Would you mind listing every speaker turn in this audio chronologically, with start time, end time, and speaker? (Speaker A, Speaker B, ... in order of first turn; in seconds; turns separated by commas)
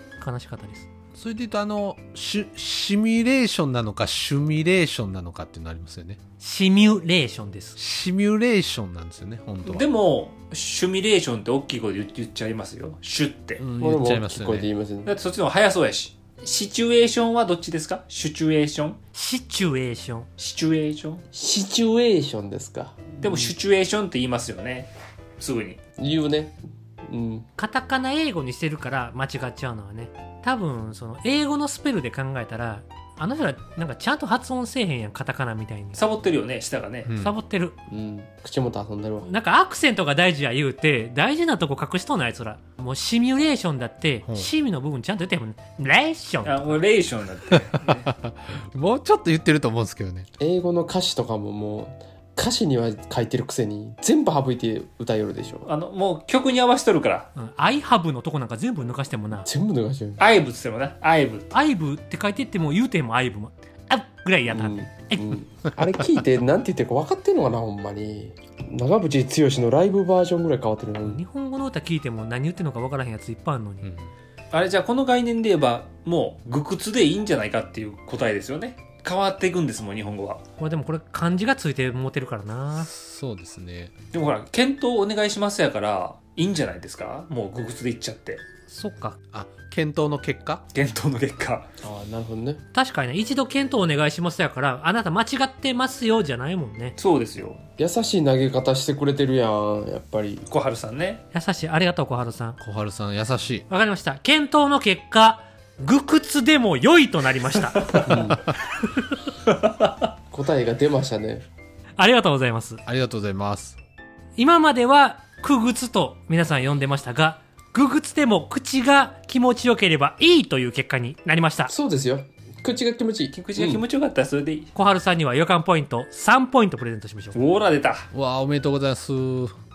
Speaker A: 0.2-0.9, Speaker B: 1.1-6.2, Speaker A: 6.4-7.8, Speaker B: 7.8-9.8, Speaker C: 9.6-13.6, Speaker B: 13.6-14.7, Speaker D: 13.8-15.1, Speaker C: 15.1-19.0, Speaker A: 19.1-20.3, Speaker C: 20.4-21.2, Speaker D: 21.3-23.5, Speaker C: 23.2-25.8, Speaker D: 26.0-27.5, Speaker A: 27.6-36.0, Speaker C: 35.9-37.1, Speaker B: 37.1-37.3, Speaker A: 37.2-37.8, Speaker D: 37.9-39.3, Speaker A: 39.2-46.8, Speaker C: 46.4-48.1, Speaker B: 47.9-50.3, Speaker D: 50.4-55.7, Speaker C: 55.6-57.3, Speaker A: 57.4-59.5, Speaker D: 59.5-60.2, Speaker C: 60.2-61.5, Speaker A: 61.5-65.4, Speaker D: 64.5-71.2, Speaker A: 71.0-73.9, Speaker B: 73.8-74.1, Speaker C: 74.5-80.4, Speaker A: 80.6-82.9, Speaker B: 82.8-83.9, Speaker C: 84.1-88.4, Speaker A: 88.7-89.2, Speaker B: 89.3-90.6, Speaker C: 90.7-91.7, Speaker D: 91.8-92.6, Speaker A: 92.7-97.0, Speaker C: 97.0-97.6, Speaker D: 97.8-100.5, Speaker C: 100.5-101.2, Speaker A: 101.3-102.6, Speaker B: 102.6-103.7, Speaker A: 103.7-108.1, Speaker C: 107.8-108.2, Speaker D: 108.0-108.4, Speaker B: 108.1-108.4, Speaker C: 109.5-109.9, Speaker D: 110.3-111.4, Speaker A: 112.0-112.8, Speaker B: 112.8-113.8, Speaker A: 114.4-121.7, Speaker D: 121.7-123.8, Speaker C: 123.3-124.7, Speaker A: 124.7-127.3, Speaker C: 127.3-128.1, Speaker B: 128.1-129.5